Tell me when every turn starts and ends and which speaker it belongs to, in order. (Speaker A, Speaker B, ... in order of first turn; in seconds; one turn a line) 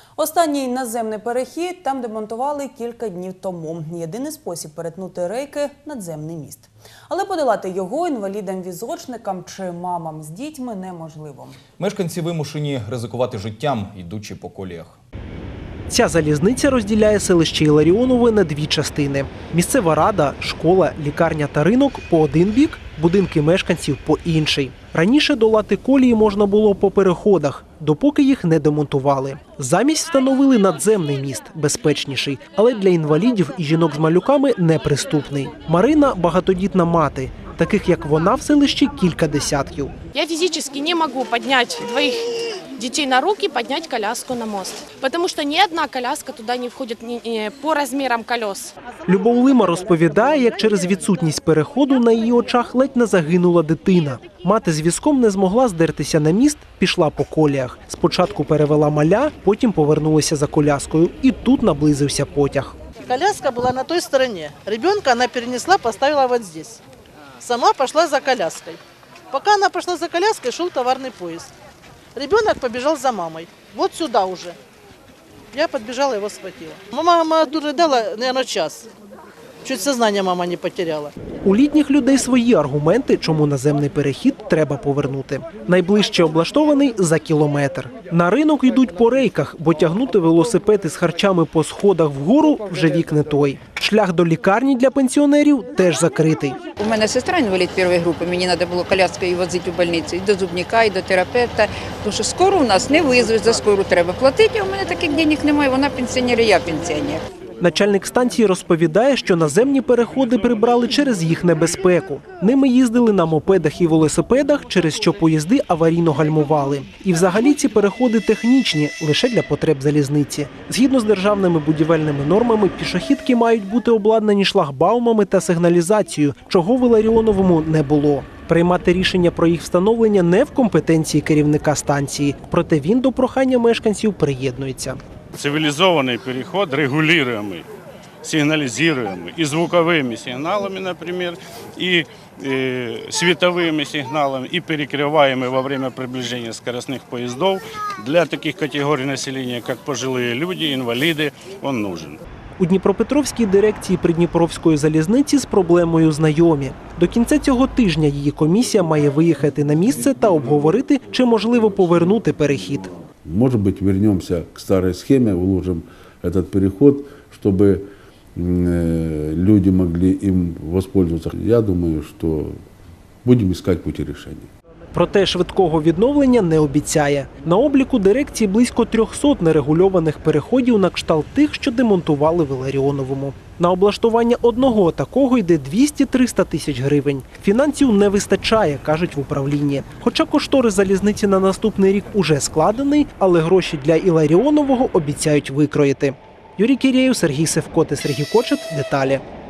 Speaker A: 0.2-11.6
Speaker B: 11.8-15.0
Speaker C: 15.9-39.9
Speaker D: 40.1-48.7
Speaker C: 49.1-62.8
Speaker E: 63.0-66.8
Speaker E: 67.4-68.8
Speaker E: 69.3-71.5
Speaker E: 72.2-74.6
Speaker E: 75.5-78.9
Speaker E: 79.6-81.1
Speaker C: 81.4-96.6
Speaker F: 96.8-107.2
Speaker C: 107.6-135.0
Speaker G: 135.3-137.7
Speaker G: 138.2-152.2
Speaker C: 152.6-162.9
Speaker H: 163.2-172.6
Speaker H: 173.2-174.5
Speaker C: 174.9-199.2